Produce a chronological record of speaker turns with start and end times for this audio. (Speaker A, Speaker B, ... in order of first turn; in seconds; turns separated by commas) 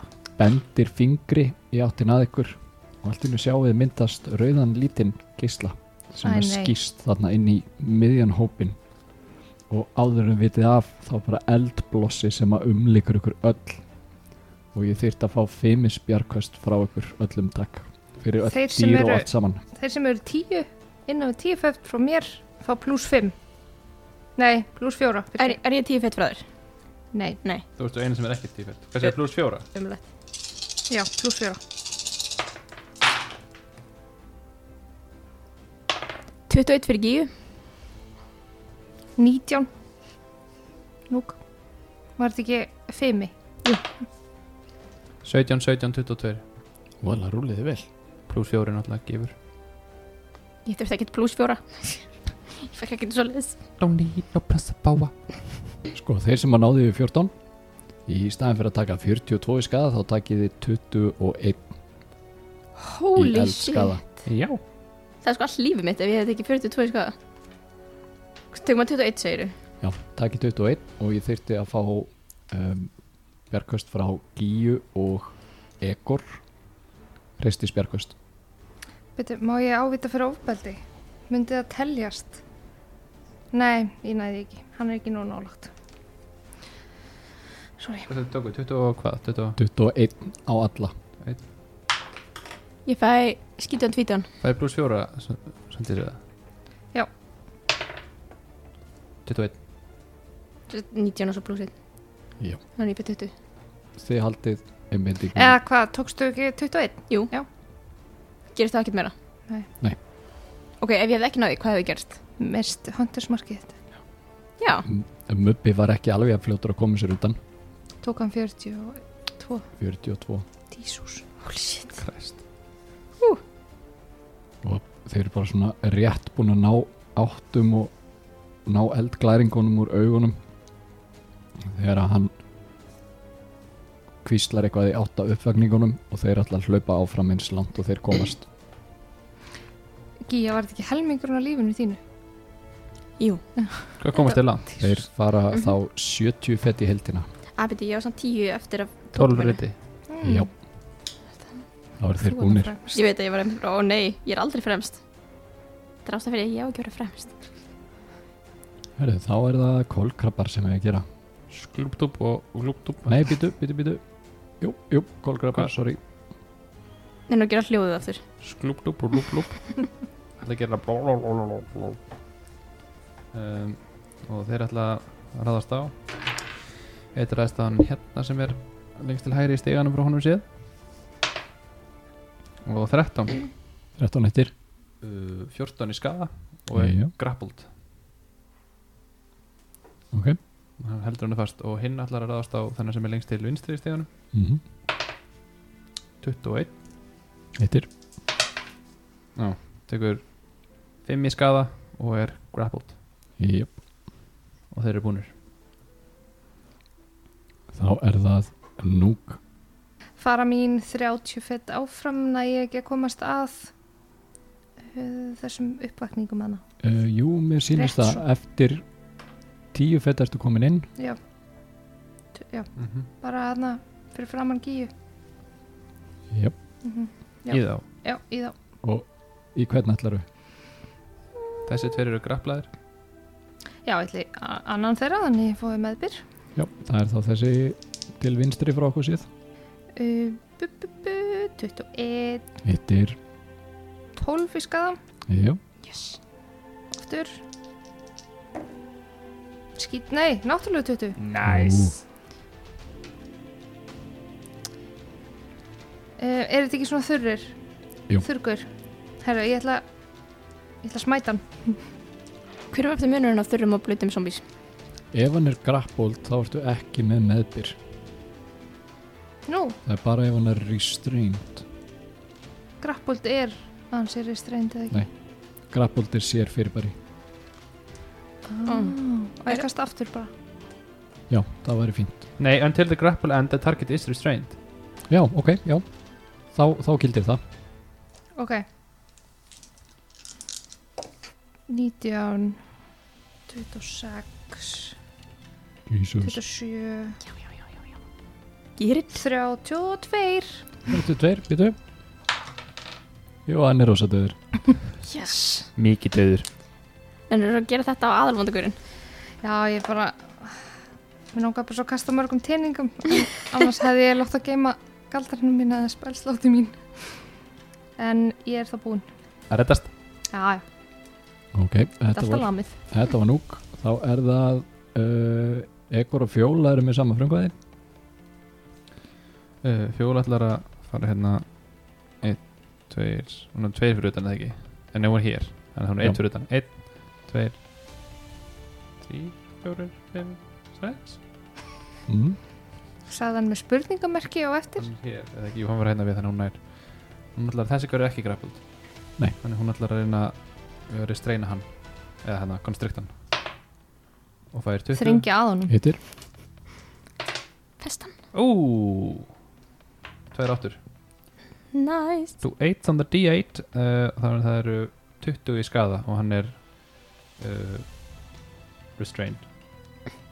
Speaker A: 0.4-8.8, Speaker B: 6.2-6.7, Speaker A: 9.7-13.8, Speaker A: 14.7-19.6, Speaker B: 18.5-23.3, Speaker B: 24.4-25.6, Speaker C: 25.4-26.5, Speaker B: 27.1-27.4, Speaker D: 27.8-29.7, Speaker C: 29.7-30.0, Speaker B: 30.9-31.6, Speaker C: 36.5-37.3, Speaker B: 39.2-39.7, Speaker B: 41.1-41.4, Speaker B: 42.2-43.3, Speaker D: 45.2-46.4, Speaker A: 47.0-47.9, Speaker D: 48.3-49.3, Speaker C: 50.6-53.6, Speaker D: 53.8-55.1, Speaker A: 55.9-57.3, Speaker A: 58.1-61.7, Speaker C: 62.8-64.0, Speaker A: 63.2-64.0, Speaker D: 64.2-64.6, Speaker C: 65.2-67.2, Speaker C: 68.5-69.5, Speaker A: 69.8-72.9, Speaker A: 73.5-76.4, Speaker A: 77.4-78.2, Speaker B: 79.2-82.4, Speaker B: 83.5-85.7, Speaker B: 87.8-88.1, Speaker D: 88.1-89.6, Speaker A: 89.6-90.9, Speaker C: 92.9-94.3, Speaker D: 94.4-96.2, Speaker D: 99.3-99.5, Speaker C: 100.7-101.7, Speaker C: 102.8-103.3, Speaker A: 104.0-105.6, Speaker B: 105.4-107.5, Speaker C: 108.5-109.1, Speaker C: 110.8-112.2, Speaker B: 112.4-113.7, Speaker C: 114.6-114.9, Speaker A: 114.9-117.4, Speaker B: 118.0-119.7, Speaker A: 119.8-120.5, Speaker B: 120.7-121.2, Speaker C: 121.4-122.0, Speaker D: 122.0-122.4, Speaker A: 124.6-127.9, Speaker A: 128.7-130.4, Speaker A: 131.6-132.3, Speaker A: 134.2-138.5, Speaker B: 140.3-142.0, Speaker B: 143.6-143.9, Speaker D: 144.0-144.8, Speaker A: 144.8-147.3, Speaker C: 147.6-149.6, Speaker D: 149.1-149.8, Speaker B: 150.1-150.5, Speaker A: 150.2-150.5, Speaker A: 152.0-152.7, Speaker B: 152.2-153.0, Speaker C: 152.9-155.0, Speaker C: 156.0-157.4, Speaker A: 159.0-161.1, Speaker D: 161.5-163.2, Speaker A: 163.1-164.0, Speaker A: 164.6-166.0, Speaker C: 167.3-168.2, Speaker D: 168.4-169.8, Speaker D: 170.4-172.0, Speaker D: 173.3-175.9, Speaker D: 177.1-180.4, Speaker D: 182.7-183.5, Speaker A: 184.0-184.5, Speaker D: 185.0-187.7, Speaker A: 186.7-187.1, Speaker A: 190.1-190.4, Speaker D: 190.8-194.1, Speaker A: 194.3-194.6, Speaker D: 196.2-196.7, Speaker A: 197.6-197.9, Speaker D: 199.4-200.3, Speaker D: 201.0-203.0, Speaker A: 203.4-203.7, Speaker D: 204.7-205.3, Speaker A: 207.7-209.4, Speaker B: 210.2-213.7, Speaker B: 214.8-216.6, Speaker A: 216.8-218.8, Speaker B: 217.8-218.2, Speaker A: 219.7-220.9, Speaker B: 222.4-224.9, Speaker D: 222.8-223.1, Speaker B: 226.8-228.6, Speaker D: 227.5-227.8, Speaker A: 228.8-230.3, Speaker D: 231.7-232.7, Speaker B: 233.8-236.2, Speaker A: 236.6-239.3, Speaker B: 239.9-242.5, Speaker A: 242.6-243.2, Speaker B: 244.2-245.0, Speaker A: 245.3-245.6, Speaker C: 245.8-246.2, Speaker B: 246.9-247.4, Speaker B: 249.8-251.2, Speaker D: 251.2-251.8, Speaker A: 251.4-252.0, Speaker B: 256.2-257.6, Speaker B: 258.2-258.7, Speaker B: 259.2-259.9, Speaker B: 260.8-261.8, Speaker C: 262.7-264.4, Speaker A: 265.1-267.8, Speaker B: 269.5-269.8, Speaker A: 269.9-271.6, Speaker B: 272.8-275.1, Speaker A: 275.7-277.0, Speaker B: 278.5-280.3, Speaker C: 278.7-278.9, Speaker A: 281.3-282.2, Speaker D: 282.4-284.6, Speaker A: 285.1-285.9, Speaker A: 286.5-287.4, Speaker B: 288.4-288.6, Speaker B: 291.7-292.6, Speaker B: 293.5-295.0, Speaker A: 295.9-296.4, Speaker B: 296.2-297.2, Speaker C: 298.8-299.2, Speaker B: 299.1-300.6, Speaker A: 300.9-301.8, Speaker A: 303.5-304.4, Speaker C: 305.1-305.7, Speaker D: 305.8-306.5, Speaker C: 307.3-308.8, Speaker B: 309.4-310.6, Speaker B: 311.3-317.2, Speaker B: 318.0-319.1, Speaker D: 319.5-319.9, Speaker B: 320.3-320.6, Speaker A: 321.5-327.5, Speaker B: 322.1-322.8, Speaker D: 329.6-337.6, Speaker D: 339.0-341.2, Speaker A: 342.1-342.4, Speaker B: 343.1-344.9, Speaker D: 344.8-348.7, Speaker D: 349.4-353.1, Speaker D: 354.5-355.3, Speaker B: 355.0-355.8, Speaker A: 355.7-356.0, Speaker C: 357.8-358.1, Speaker D: 358.3-359.3, Speaker D: 360.3-360.8, Speaker C: 361.7-362.4, Speaker D: 362.4-367.9, Speaker D: 369.0-369.5